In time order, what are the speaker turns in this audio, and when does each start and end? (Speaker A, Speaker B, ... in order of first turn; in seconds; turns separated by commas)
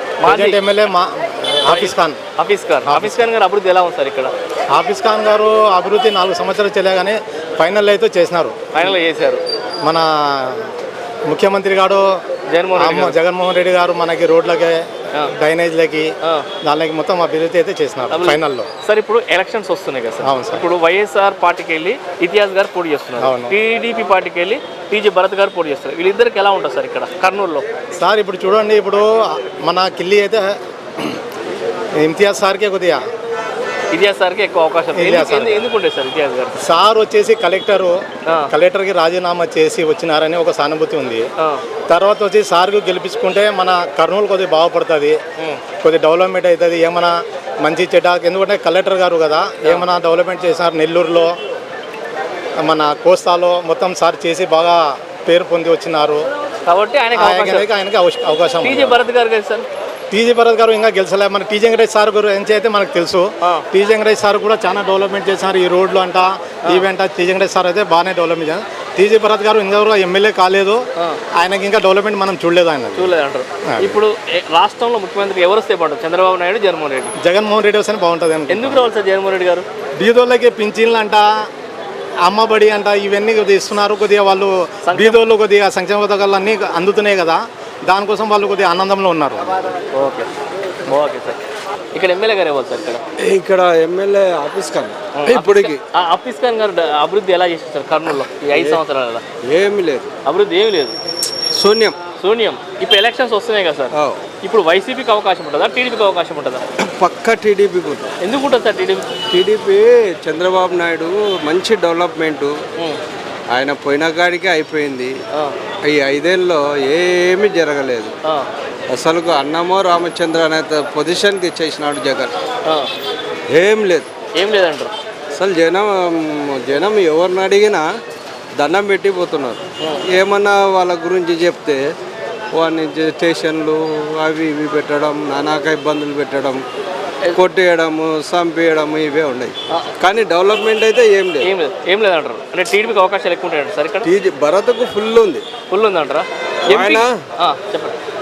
Speaker A: 0.2-0.6, Speaker B: 0.2-2.2, Speaker A: 1.7-4.3, Speaker B: 2.9-3.2, Speaker B: 4.7-8.6, Speaker A: 8.7-9.4, Speaker B: 9.8-10.7, Speaker B: 11.3-12.1, Speaker A: 12.5-13.2, Speaker B: 12.7-14.8, Speaker B: 15.3-16.1, Speaker B: 16.6-18.7, Speaker A: 18.1-27.6, Speaker B: 20.2-20.6, Speaker B: 23.2-23.5, Speaker B: 28.0-31.2, Speaker B: 32.0-33.0, Speaker A: 33.9-36.5, Speaker B: 34.9-35.6, Speaker B: 36.6-38.0, Speaker B: 38.5-41.2, Speaker B: 41.9-45.2, Speaker B: 45.8-51.3, Speaker B: 52.6-56.3, Speaker A: 56.7-57.7, Speaker B: 57.1-59.0, Speaker A: 58.6-59.6, Speaker B: 60.1-70.8, Speaker B: 71.4-73.1, Speaker A: 73.0-77.1, Speaker B: 73.7-74.0, Speaker B: 77.2-78.8, Speaker A: 78.5-79.7, Speaker B: 80.0-81.3, Speaker B: 82.3-89.5, Speaker A: 84.8-85.2, Speaker A: 89.9-90.3, Speaker A: 90.9-91.4, Speaker A: 91.9-93.0, Speaker C: 93.2-95.8, Speaker A: 95.2-99.2, Speaker C: 98.5-98.8, Speaker C: 99.5-100.1, Speaker A: 100.2-100.9, Speaker C: 101.5-102.0, Speaker A: 102.2-103.9, Speaker A: 104.4-106.6, Speaker C: 106.8-108.1, Speaker A: 108.2-109.1, Speaker C: 109.3-112.5, Speaker C: 113.5-115.1, Speaker C: 115.9-118.1, Speaker C: 118.9-122.3, Speaker C: 123.5-124.1, Speaker A: 124.3-124.9, Speaker C: 125.3-127.8, Speaker C: 128.6-131.8, Speaker C: 132.5-136.6, Speaker C: 137.3-141.5, Speaker A: 141.4-144.1, Speaker C: 144.0-145.4, Speaker A: 145.7-147.9, Speaker C: 146.7-147.1